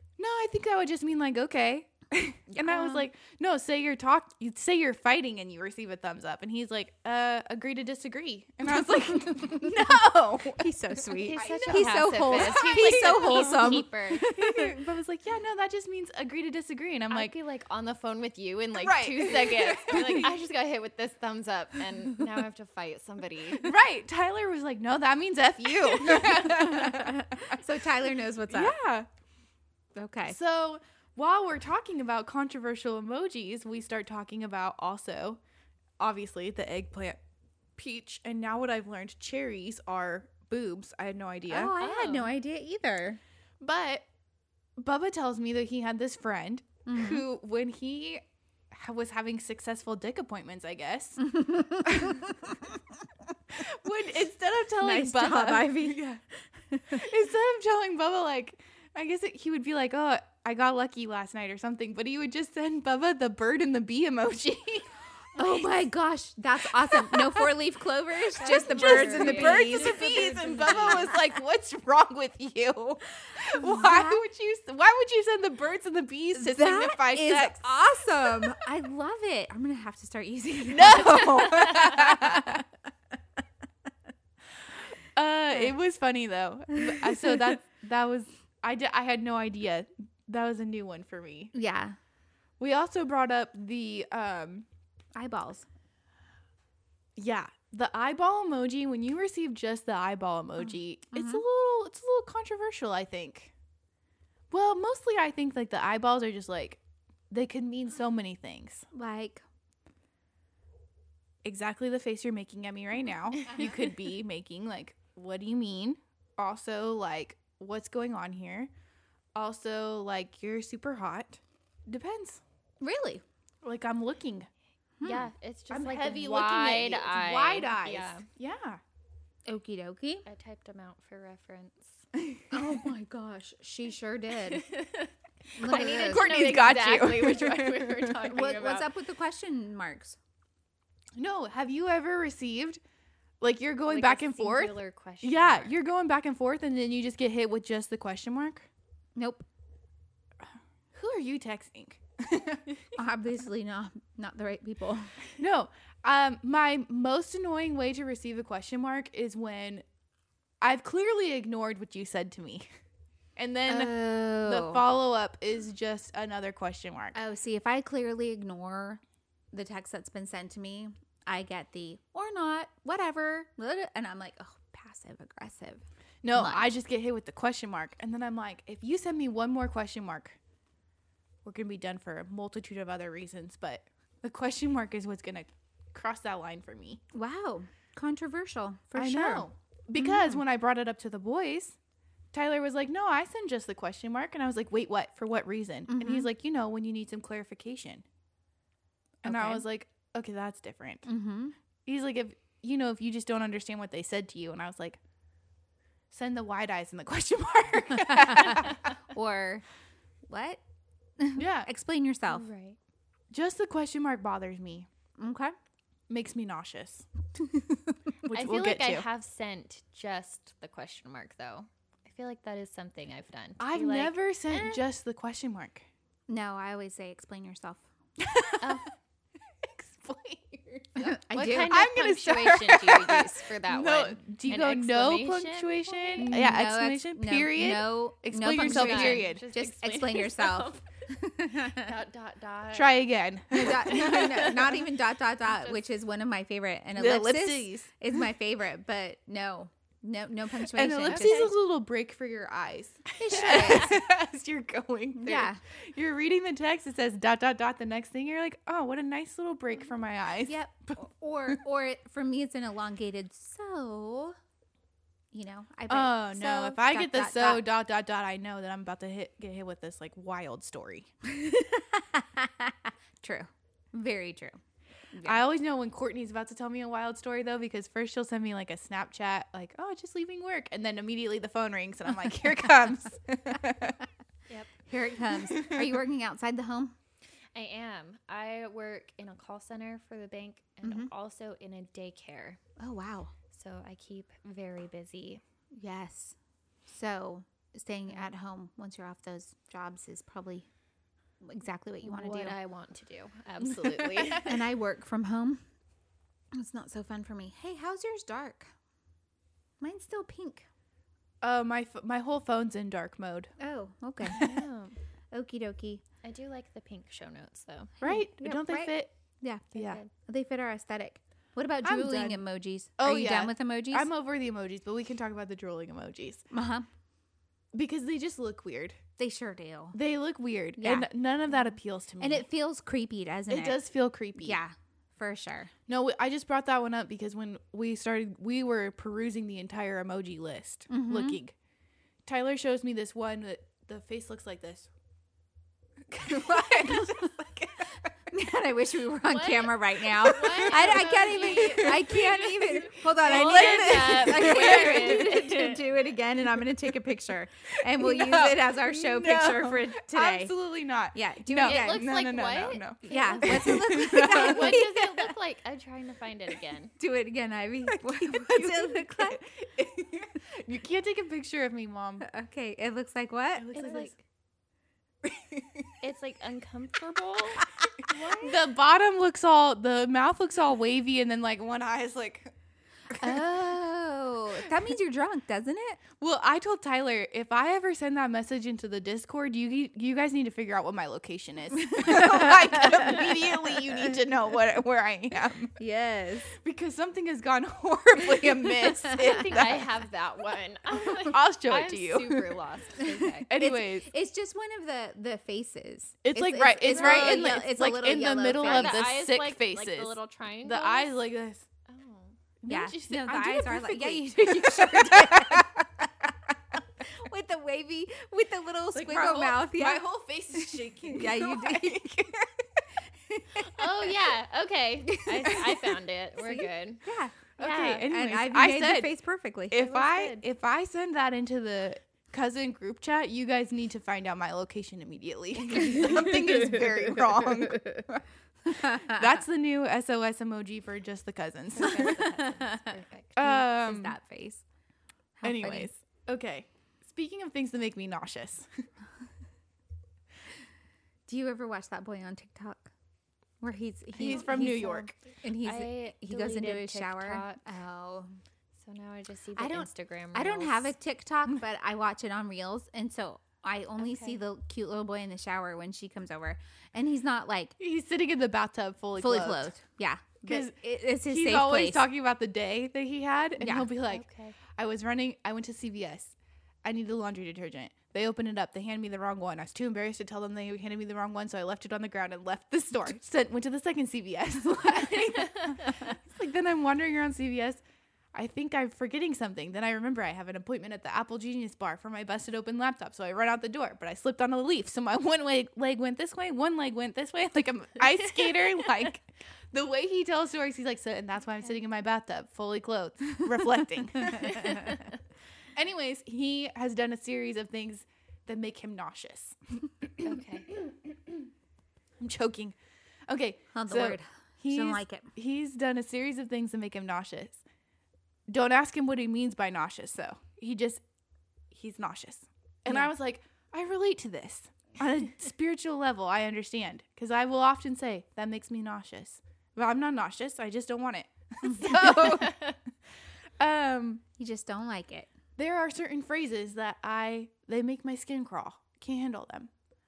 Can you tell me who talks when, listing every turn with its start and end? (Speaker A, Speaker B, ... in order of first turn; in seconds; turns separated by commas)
Speaker A: 0.2-17.4, Speaker B: 2.5-2.8, Speaker C: 8.7-14.7, Speaker B: 11.2-14.2, Speaker B: 17.1-23.8, Speaker A: 18.8-20.3, Speaker A: 23.6-27.7, Speaker C: 26.0-28.8, Speaker A: 28.5-29.1, Speaker C: 30.0-30.4, Speaker A: 30.3-35.4, Speaker A: 36.0-37.2, Speaker A: 37.8-41.8, Speaker C: 41.5-43.2, Speaker B: 41.8-42.3, Speaker A: 43.6-44.1, Speaker A: 44.8-51.3, Speaker C: 46.9-47.2, Speaker C: 51.2-52.6, Speaker A: 51.8-52.4, Speaker A: 53.5-56.2, Speaker C: 54.8-56.1, Speaker C: 56.7-57.0, Speaker A: 56.9-65.7, Speaker C: 65.3-70.1, Speaker A: 66.7-67.5, Speaker B: 68.4-71.1, Speaker A: 68.4-78.5, Speaker C: 73.4-74.2, Speaker C: 76.3-82.6, Speaker A: 80.7-82.6, Speaker A: 84.7-91.5, Speaker C: 91.5-92.0, Speaker A: 92.6-94.7, Speaker C: 95.2-95.7, Speaker A: 97.2-103.5, Speaker C: 101.1-101.4, Speaker A: 104.5-108.9, Speaker C: 108.9-109.4, Speaker A: 111.4-118.7, Speaker A: 119.3-122.4, Speaker C: 122.8-123.2, Speaker A: 123.6-124.5, Speaker C: 125.0-125.3, Speaker B: 125.0-128.3, Speaker A: 125.7-128.8, Speaker C: 129.5-130.3, Speaker B: 130.3-132.1, Speaker C: 132.5-134.7, Speaker B: 134.5-138.9, Speaker C: 135.6-136.3, Speaker A: 135.6-138.3, Speaker C: 138.3-140.2, Speaker A: 141.2-142.8, Speaker A: 143.4-148.7, Speaker B: 143.9-145.7, Speaker C: 149.2-149.4, Speaker A: 150.9-153.0, Speaker C: 153.0-155.1, Speaker A: 155.4-159.8, Speaker A: 160.6-162.7, Speaker A: 163.4-167.2, Speaker C: 163.7-164.8, Speaker C: 167.2-169.0, Speaker C: 169.5-175.8, Speaker A: 176.2-180.4, Speaker C: 176.3-176.7, Speaker A: 181.4-187.0, Speaker C: 187.1-190.4, Speaker A: 188.9-191.8, Speaker A: 192.3-198.1, Speaker C: 195.9-196.3, Speaker A: 199.2-201.1, Speaker C: 199.2-199.7, Speaker C: 201.1-201.6, Speaker A: 201.8-205.0, Speaker A: 206.1-208.9, Speaker C: 208.0-209.7, Speaker C: 210.3-210.6, Speaker C: 211.2-212.5, Speaker A: 211.4-211.7, Speaker B: 212.3-212.8, Speaker A: 213.3-214.9, Speaker C: 215.2-215.5, Speaker A: 216.1-217.1, Speaker C: 217.4-217.9, Speaker A: 218.2-219.1, Speaker B: 218.3-224.8, Speaker A: 223.6-225.8, Speaker C: 226.3-227.8, Speaker A: 228.2-228.8, Speaker B: 228.6-228.9, Speaker A: 229.6-239.4, Speaker C: 231.0-231.8, Speaker B: 231.3-236.3, Speaker C: 236.2-241.9, Speaker B: 238.6-240.9, Speaker B: 241.7-243.0, Speaker A: 242.7-244.8, Speaker C: 243.5-251.5, Speaker B: 243.9-244.8, Speaker B: 245.5-245.8, Speaker A: 246.9-247.9, Speaker A: 250.7-261.6, Speaker B: 251.1-251.5, Speaker C: 253.2-254.0, Speaker C: 255.2-255.6, Speaker C: 260.5-264.4, Speaker C: 265.3-267.7, Speaker A: 265.9-271.1, Speaker C: 271.2-274.6, Speaker C: 275.1-275.4, Speaker A: 275.2-284.0, Speaker C: 284.9-286.9, Speaker A: 285.5-286.0, Speaker B: 287.6-292.6, Speaker C: 290.8-291.1, Speaker C: 292.8-293.3, Speaker B: 293.5-295.4, Speaker C: 295.8-296.4, Speaker C: 296.9-300.7, Speaker C: 301.4-302.6, Speaker B: 302.0-304.6, Speaker A: 303.6-304.5, Speaker C: 304.4-305.6, Speaker C: 306.5-308.7, Speaker C: 309.8-310.7, Speaker A: 311.4-313.5, Speaker C: 313.6-314.5, Speaker A: 314.3-314.7, Speaker B: 314.3-314.9, Speaker C: 315.3-316.0, Speaker B: 316.2-317.9, Speaker A: 318.0-319.1, Speaker C: 318.0-324.1, Speaker A: 319.8-320.0, Speaker B: 319.8-320.1, Speaker A: 321.8-322.4, Speaker A: 323.0-326.4, Speaker C: 326.5-326.9, Speaker A: 327.7-329.0, Speaker C: 329.2-330.0, Speaker A: 329.9-332.5, Speaker C: 330.8-331.1, Speaker C: 332.2-333.8, Speaker A: 333.5-334.6, Speaker C: 334.4-335.7, Speaker A: 335.9-341.6, Speaker C: 340.9-341.4, Speaker A: 342.3-344.9, Speaker A: 346.1-348.1, Speaker C: 346.5-347.3, Speaker C: 348.3-360.5, Speaker B: 349.3-355.8, Speaker A: 350.2-355.5, Speaker A: 357.9-365.3, Speaker C: 361.1-362.1, Speaker B: 361.6-366.9, Speaker C: 363.0-365.0, Speaker C: 367.0-369.5, Speaker A: 367.9-372.2, Speaker C: 372.2-373.8, Speaker A: 373.6-374.2, Speaker B: 373.7-374.1, Speaker A: 375.2-375.9, Speaker B: 376.0-378.3, Speaker C: 378.1-378.5, Speaker A: 378.1-382.5, Speaker A: 383.1-383.4, Speaker C: 383.1-386.0, Speaker A: 386.2-395.8, Speaker C: 391.8-393.4, Speaker C: 395.8-396.5, Speaker A: 396.5-399.9, Speaker B: 399.2-403.5, Speaker A: 401.0-402.6, Speaker C: 403.0-409.0, Speaker A: 403.5-404.1, Speaker A: 406.2-411.7, Speaker B: 406.9-407.6, Speaker B: 408.6-411.2, Speaker B: 411.9-412.4, Speaker A: 412.6-416.1, Speaker C: 412.7-415.7, Speaker C: 417.0-422.3, Speaker A: 418.9-422.5, Speaker C: 423.3-423.8, Speaker B: 423.6-427.0, Speaker C: 426.5-427.3, Speaker B: 427.6-428.1, Speaker A: 427.6-429.1, Speaker C: 428.1-429.8, Speaker A: 429.7-442.3, Speaker B: 429.8-430.4, Speaker C: 438.7-439.2, Speaker B: 441.8-443.3, Speaker C: 441.8-444.6, Speaker A: 443.4-444.2, Speaker C: 445.4-445.9, Speaker A: 445.4-448.7, Speaker C: 451.3-452.9, Speaker C: 453.6-458.3, Speaker A: 454.2-455.1, Speaker B: 454.2-454.9, Speaker B: 455.6-457.6, Speaker B: 458.8-460.9, Speaker C: 459.6-467.8, Speaker B: 464.0-464.4, Speaker A: 467.8-469.7, Speaker C: 469.2-472.1, Speaker A: 470.4-487.8, Speaker C: 473.6-473.9, Speaker B: 474.0-474.6, Speaker A: 488.3-505.0, Speaker B: 504.6-505.0, Speaker A: 505.8-511.4, Speaker B: 510.2-510.7, Speaker A: 512.2-512.8, Speaker A: 513.3-517.6, Speaker C: 513.7-515.3, Speaker A: 518.5-521.0, Speaker A: 521.7-532.7, Speaker C: 531.7-532.3, Speaker A: 533.6-534.2, Speaker C: 534.4-535.3, Speaker A: 535.6-539.7